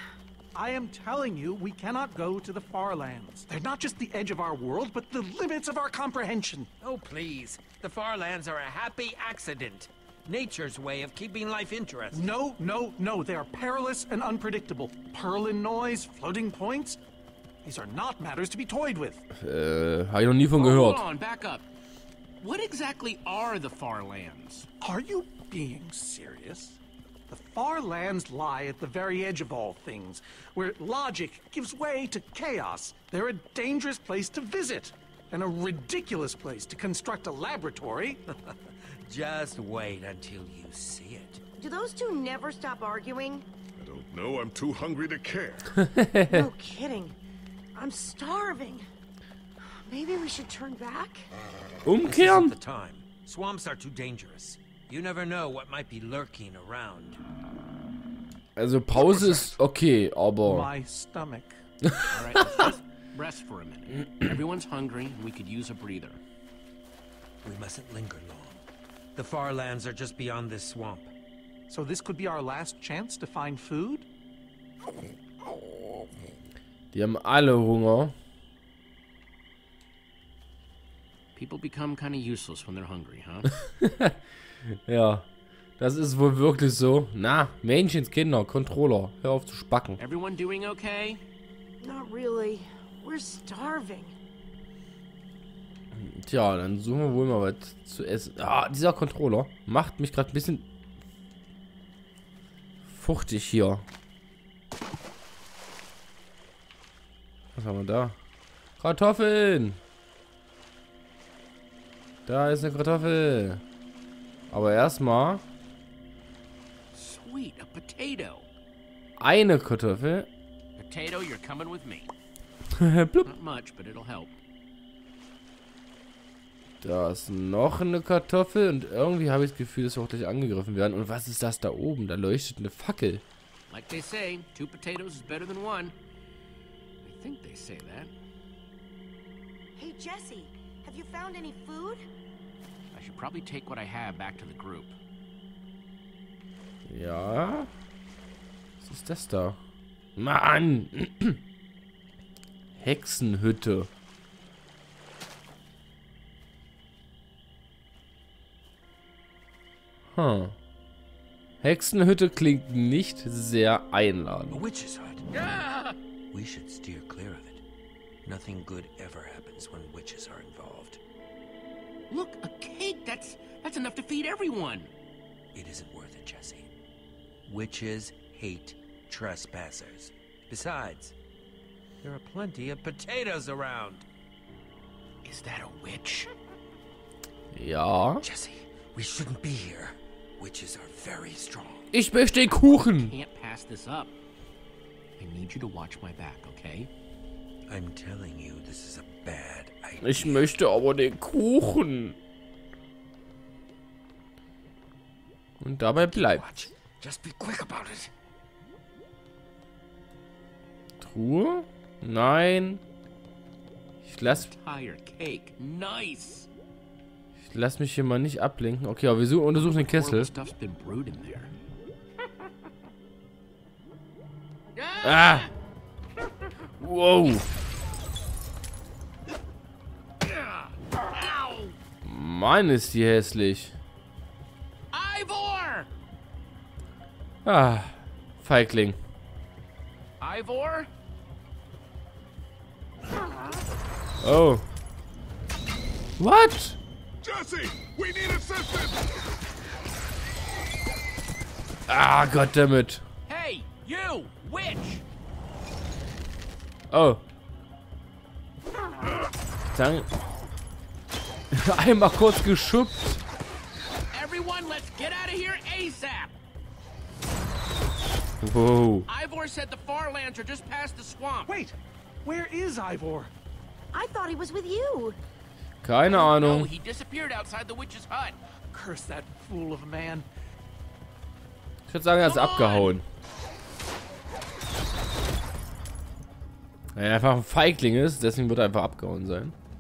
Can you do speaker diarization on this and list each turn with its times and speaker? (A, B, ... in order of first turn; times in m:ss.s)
0:00.5-0:06.7 A
0:06.8-0:12.3 B
0:12.1-0:17.0 A
0:17.6-0:19.2 A
0:19.3-0:21.1 C
0:20.6-0:21.6 D
0:22.4-0:24.7 D
0:24.8-0:38.2 A
0:39.0-0:41.4 B
0:41.6-0:43.4 E
0:43.8-0:45.8 F
0:45.8-0:46.5 C
0:46.3-0:47.2 E
0:47.8-0:48.8 E
0:49.8-0:51.3 E
0:51.8-0:52.6 C
0:52.0-0:57.2 B
0:58.6-1:00.7 C
1:00.4-1:01.6 A
1:01.8-1:02.2 C
1:02.1-1:06.2 D
1:07.4-1:08.6 B
1:09.2-1:11.1 B
1:11.7-1:14.1 A
1:16.9-1:18.2 C
1:21.4-1:23.6 D
1:23.8-1:24.2 C
1:24.9-1:25.3 C
1:25.8-1:30.0 C
1:30.0-1:31.2 D
1:31.8-1:34.2 E
1:35.9-1:40.7 C
1:42.8-1:43.9 C
1:47.6-1:48.2 C
1:48.8-1:49.8 C
1:52.3-1:53.6 C
1:54.5-1:55.4 C
1:56.9-1:58.5 D
1:59.2-2:00.3 C
2:00.8-2:02.1 D
2:02.7-2:03.3 C
2:03.2-2:04.4 D
2:06.8-2:13.2 C
2:13.7-2:15.9 D
2:17.0-2:18.1 D
2:19.8-2:22.0 E
2:22.9-2:25.0 D
2:26.9-2:27.7 C
2:28.8-2:29.6 C
2:30.2-2:31.4 C
2:32.8-2:33.9 C
2:40.1-2:40.6 C
2:41.6-2:44.6 C
2:44.5-2:45.2 B
2:45.3-2:46.0 D
2:46.3-2:47.6 B
2:48.2-2:51.0 B
2:52.1-2:54.9 D
2:55.5-2:56.7 B
2:57.5-3:01.1 B
3:02.0-3:04.0 B
3:05.2-3:06.3 D
3:07.5-3:08.3 C
3:08.2-3:11.9 B
3:11.9-3:13.1 C
3:12.8-3:14.1 D
3:15.2-3:16.9 D
3:17.7-3:20.5 B
3:20.0-3:22.2 C
3:25.6-3:26.7 C
3:26.1-3:28.1 B
3:31.0-3:32.8 C
3:34.0-3:34.5 C
3:34.4-3:36.5 D
3:37.4-3:40.3 C
3:39.6-3:41.5 D
3:44.8-3:45.5 D
3:45.0-3:45.5 C
3:46.8-3:47.6 C
3:50.2-3:51.8 D
3:52.0-3:53.8 C
3:54.9-3:55.9 D
3:57.4-3:59.0 C
4:00.2-4:00.9 D
4:04.2-4:04.6 C
4:06.2-4:06.8 C
4:07.2-4:09.1 F
4:11.9-4:13.0 C
4:13.3-4:15.0 D
4:16.9-4:17.2 C
4:19.7-4:20.1 C
4:21.5-4:23.2 C
4:24.1-4:26.3 D
4:28.4-4:29.1 C
4:29.1-4:31.6 D
4:31.5-4:33.3 A
4:33.9-4:35.2 E
4:35.8-4:36.7 C
4:36.1-4:38.4 D
4:38.7-4:40.3 A
4:41.9-4:43.0 C
4:42.2-4:43.0 D
4:47.0-4:49.6 C